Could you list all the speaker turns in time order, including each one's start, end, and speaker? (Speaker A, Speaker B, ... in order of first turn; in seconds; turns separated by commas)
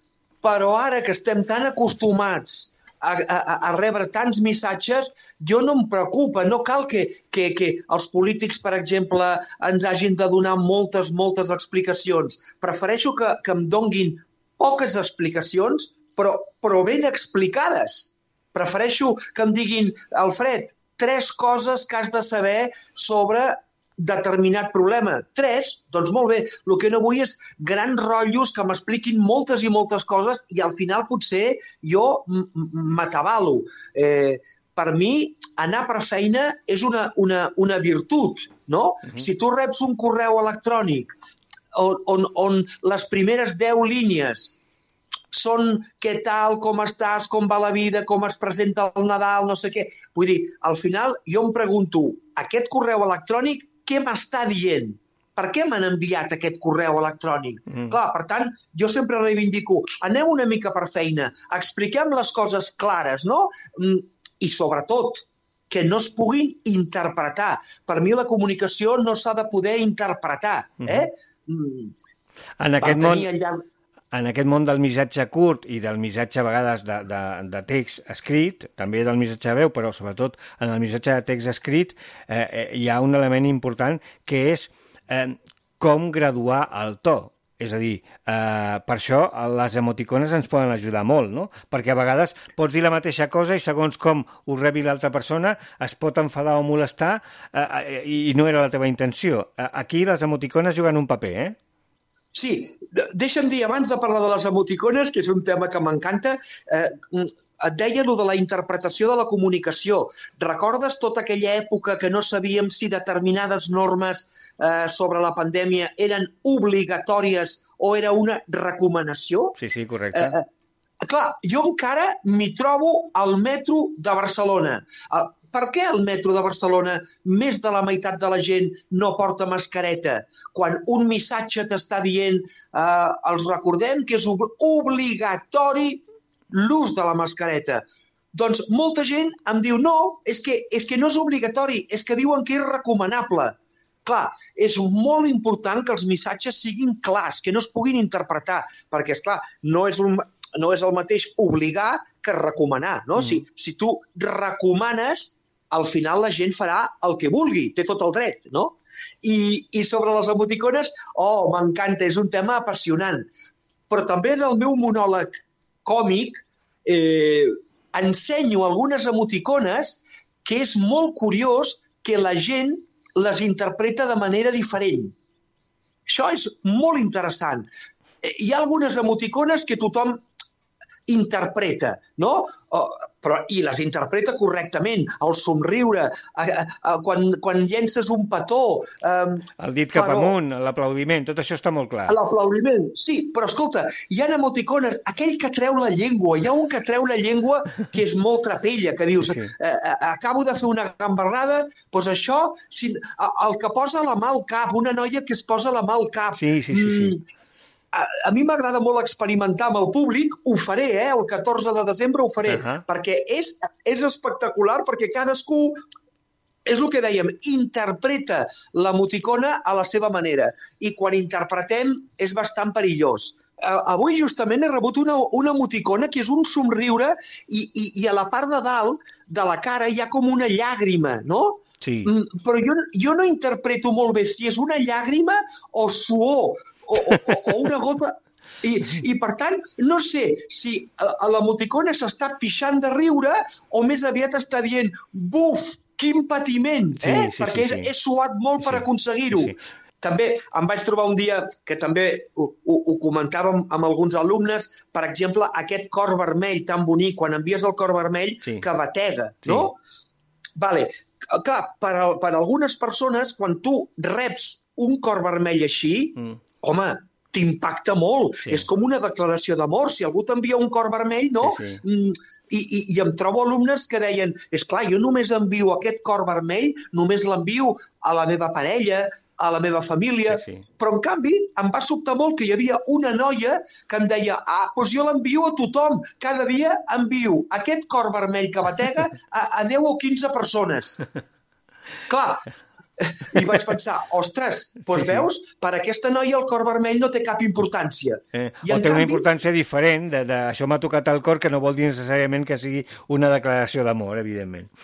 Speaker A: 0.4-41.1, Speaker A: 41.7-44.6, Speaker A: 45.3-72.0, Speaker B: 72.6-73.3, Speaker A: 72.8-73.6, Speaker B: 74.1-101.6, Speaker A: 102.3-119.6, Speaker B: 119.6-120.4, Speaker A: 120.1-120.5, Speaker A: 121.0-137.8, Speaker A: 138.3-163.3, Speaker A: 163.9-175.2, Speaker A: 176.1-177.7, Speaker A: 178.2-180.2, Speaker A: 181.1-190.4, Speaker B: 189.6-192.2, Speaker A: 192.1-207.2, Speaker B: 199.2-199.5, Speaker B: 206.3-207.2, Speaker A: 207.9-215.8, Speaker B: 212.5-212.8, Speaker A: 216.7-259.8, Speaker B: 231.8-232.1, Speaker B: 247.0-247.9, Speaker B: 248.6-249.6, Speaker B: 259.4-259.7, Speaker A: 260.6-291.0, Speaker B: 268.4-268.7, Speaker B: 271.4-271.8, Speaker B: 280.3-280.6, Speaker A: 292.1-299.3, Speaker B: 294.9-295.3, Speaker B: 298.3-304.7